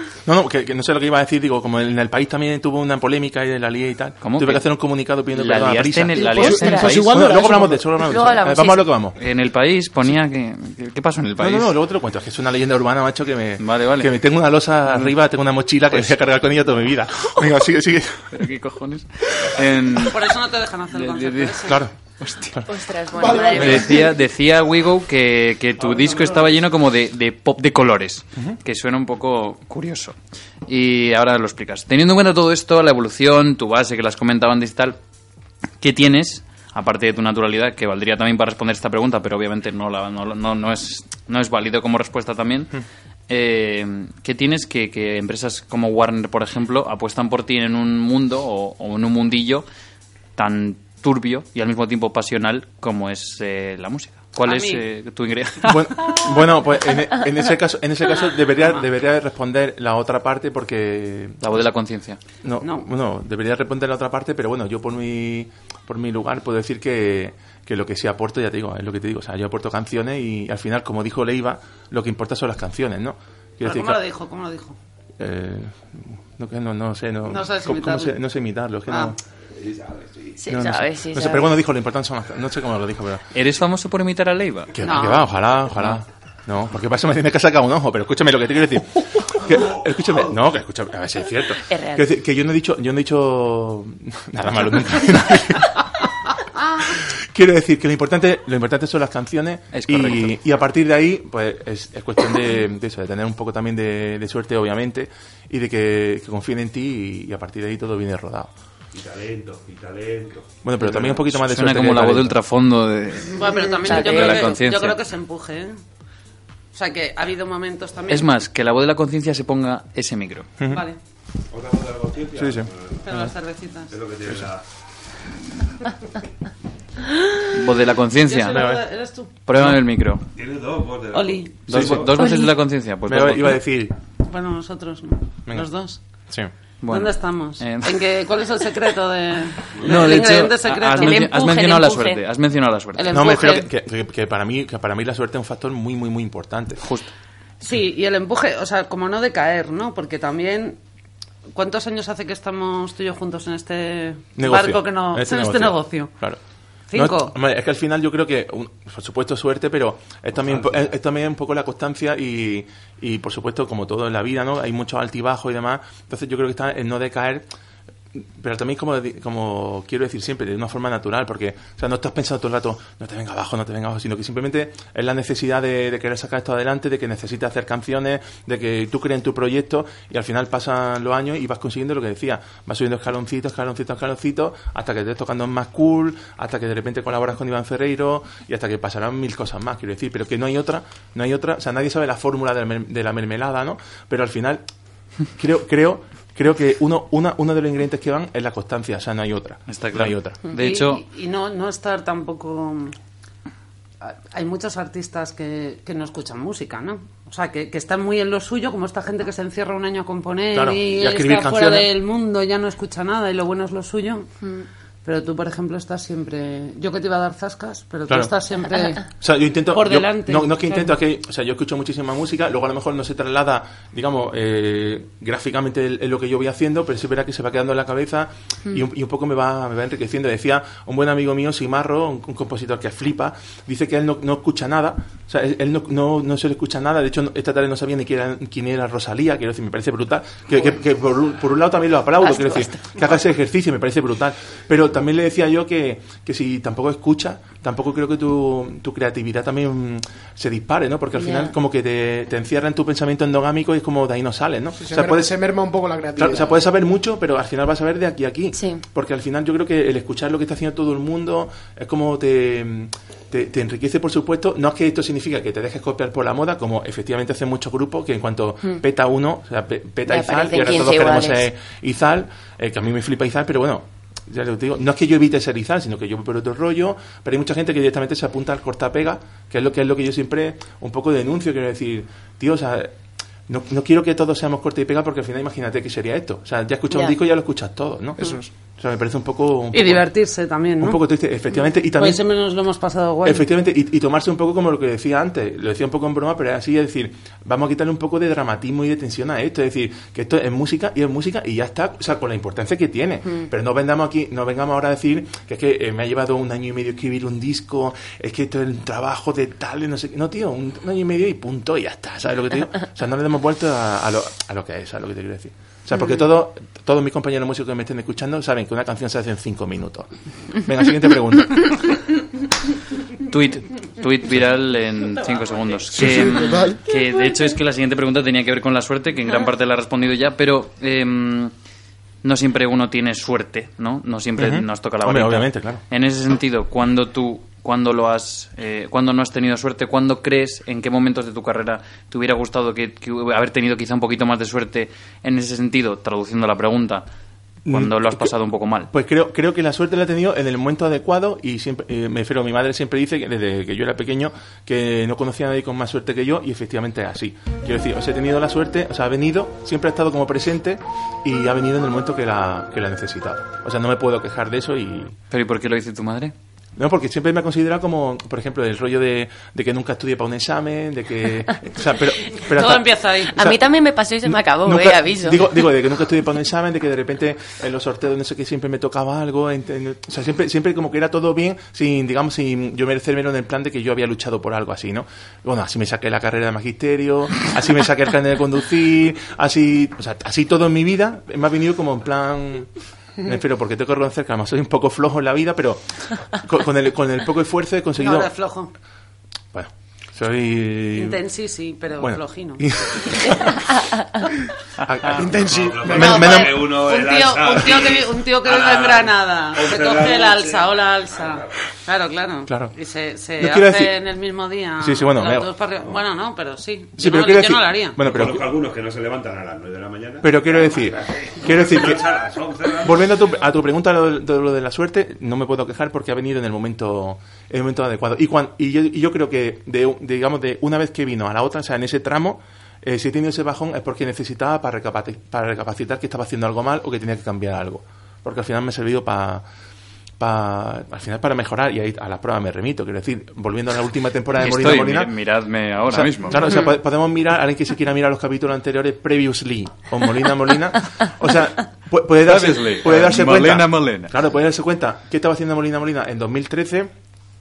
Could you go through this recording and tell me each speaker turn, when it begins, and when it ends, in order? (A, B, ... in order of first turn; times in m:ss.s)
0:00.2-0:09.2 A
0:04.2-0:04.7 B
0:05.3-0:07.0 B
0:06.2-0:07.8 C
0:06.4-0:07.5 D
0:08.0-0:08.9 D
0:09.2-0:11.7 B
0:11.4-0:18.3 A
0:13.6-0:14.1 B
0:18.3-0:20.3 B
0:20.1-0:21.8 E
0:20.9-0:22.5 B
0:21.6-0:22.6 A
0:22.7-0:24.1 D
0:23.2-0:24.1 C
0:23.6-0:30.2 B
0:25.8-0:26.5 F
0:30.7-0:35.0 B
0:35.8-0:42.8 B
0:43.3-0:49.6 B
0:50.4-0:56.3 B
0:54.4-0:54.8 E
0:55.7-1:01.5 A
0:58.1-0:58.8 E
1:01.4-1:02.2 B
1:02.4-1:14.0 A
1:02.6-1:02.9 E
1:13.6-1:14.8 E
1:15.2-1:19.2 A
1:17.3-1:18.2 E
1:18.9-1:19.2 E
1:19.5-1:20.4 F
1:20.4-1:21.6 D
1:20.5-1:23.2 A
1:23.3-1:24.8 B
1:24.8-1:35.8 A
1:24.8-1:25.3 E
1:31.6-1:32.1 D
1:36.9-1:48.5 A
1:39.7-1:40.3 B
1:48.9-1:51.2 F
1:50.6-1:52.4 A
1:51.3-1:55.0 B
1:53.3-1:55.8 E
1:53.9-1:54.5 D
1:56.7-1:58.3 E
1:58.1-2:00.5 B
2:00.7-2:01.0 E
2:01.5-2:03.0 F
2:02.4-2:03.2 A
2:03.0-2:04.0 E
2:03.9-2:04.6 F
2:07.5-2:08.6 B
2:08.2-2:09.3 E
2:08.5-2:08.8 A
2:09.5-2:10.2 B
2:10.4-2:12.1 F
2:11.1-2:11.7 E
2:11.7-2:13.6 B
2:11.7-2:12.1 A
2:12.2-2:12.5 D
2:13.1-2:14.0 A
2:14.3-2:16.0 E
2:16.8-2:18.0 B
2:16.9-2:21.3 E
2:19.8-2:23.2 B
2:21.0-2:22.2 D
2:23.0-2:23.7 E
2:23.1-2:26.8 A
2:26.8-2:27.1 B
2:27.6-2:30.8 E
2:31.5-2:36.2 E
2:34.4-2:36.4 A
2:36.9-2:37.4 E
2:36.9-2:47.5 A
2:40.5-2:40.8 F
2:48.2-3:14.6 A
3:15.4-3:20.4 A
3:19.7-3:21.0 B
3:20.5-3:23.0 E
3:24.0-3:34.3 E
3:30.5-3:31.9 A
3:35.0-3:39.1 E
3:38.1-3:38.3 A
3:39.2-4:15.4 A
3:39.7-3:41.0 E
4:02.2-4:03.1 D
4:11.2-4:11.5 D
4:14.8-4:16.6 C
4:16.2-4:43.0 A
4:18.5-4:18.8 D
4:30.1-4:31.5 D
4:43.5-4:50.1 A
4:46.9-4:47.2 D
4:49.7-4:51.0 E
4:50.8-4:52.2 A
4:51.9-4:53.5 E
4:53.2-5:20.1 A
5:20.6-5:21.8 A
5:23.3-5:31.5 B
5:26.0-5:26.4 A
5:26.0-5:26.8 C
5:32.2-5:47.0 B
5:34.4-5:35.8 A
5:47.7-5:48.3 A
5:47.7-5:48.9 B
5:48.9-6:05.2 A
6:05.3-6:06.3 B
6:06.8-6:13.6 A
6:12.4-6:13.3 E
6:13.3-6:15.6 D
6:14.2-6:32.7 A
6:33.2-6:38.3 A
6:38.0-6:38.7 E
6:39.5-6:41.2 A
6:40.9-6:43.6 E
6:42.0-6:43.7 A
6:44.8-6:46.6 A
6:45.1-6:46.2 C
6:45.4-6:51.5 F
6:46.0-6:58.0 E
6:52.5-6:52.7 A
6:53.4-6:54.0 A
6:54.8-6:55.5 A
6:57.0-6:58.5 A
6:58.0-7:03.3 F
7:00.2-7:02.2 A
7:02.8-7:19.4 A
7:20.2-7:25.1 A
7:24.4-7:26.5 B
7:25.9-7:36.9 A
7:32.3-7:34.1 B